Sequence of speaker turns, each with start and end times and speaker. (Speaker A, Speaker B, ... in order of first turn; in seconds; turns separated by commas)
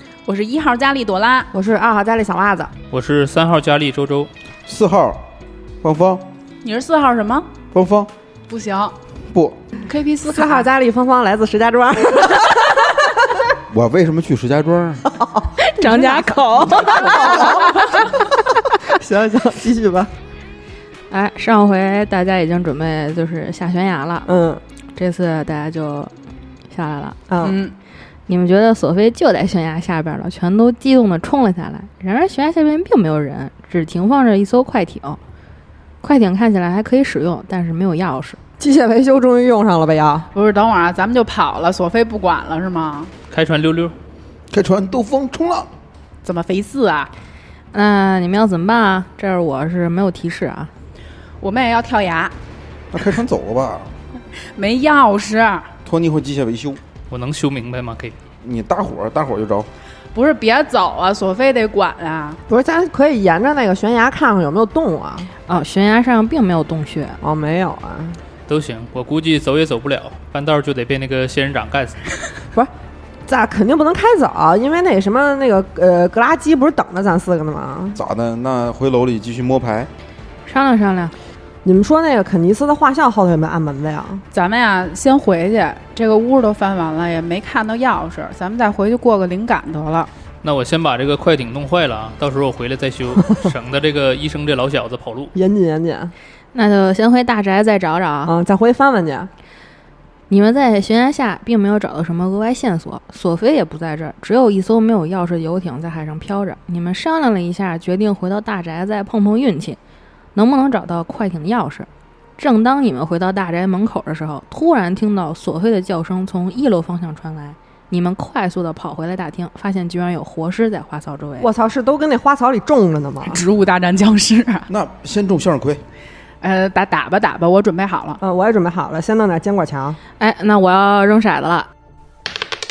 Speaker A: 0.2-1.5, Speaker B: 1.5-2.7, Speaker C: 2.9-4.3, Speaker D: 4.7-5.3, Speaker D: 5.8-6.3, Speaker A: 6.6-7.5, Speaker D: 7.7-8.1, Speaker A: 8.5-8.9, Speaker D: 9.3-9.6, Speaker A: 9.8-10.7, Speaker B: 10.2-13.1, Speaker D: 13.7-15.1, Speaker B: 15.2-18.2, Speaker E: 15.6-17.6, Speaker B: 18.8-20.1, Speaker E: 21.1-24.3, Speaker B: 24.3-24.6, Speaker E: 24.9-26.1, Speaker E: 26.7-27.2, Speaker B: 27.3-27.6, Speaker A: 27.4-27.7, Speaker E: 28.3-35.2, Speaker E: 36.0-38.4, Speaker B: 38.6-40.3, Speaker A: 40.3-43.1, Speaker C: 43.3-43.9, Speaker D: 44.5-45.7, Speaker A: 46.2-47.1, Speaker E: 47.7-50.7, Speaker A: 51.4-52.3, Speaker D: 52.9-53.9, Speaker A: 54.4-55.7, Speaker D: 55.9-56.8, Speaker C: 57.1-58.1, Speaker D: 58.4-59.7, Speaker A: 60.1-62.4, Speaker B: 62.5-65.3, Speaker E: 65.5-67.2, Speaker B: 67.2-68.2, Speaker C: 68.5-72.0, Speaker B: 73.3-78.0, Speaker D: 77.9-79.9, Speaker E: 80.5-81.1, Speaker B: 81.6-84.2, Speaker A: 84.3-90.1, Speaker C: 90.4-95.3, Speaker B: 95.3-96.1, Speaker E: 96.5-98.3, Speaker B: 98.2-99.3, Speaker E: 100.3-109.8, Speaker E: 110.3-121.5, Speaker B: 121.4-123.4, Speaker A: 123.3-124.7, Speaker D: 124.7-125.8, Speaker A: 126.4-128.2, Speaker B: 128.2-130.0, Speaker E: 130.2-131.7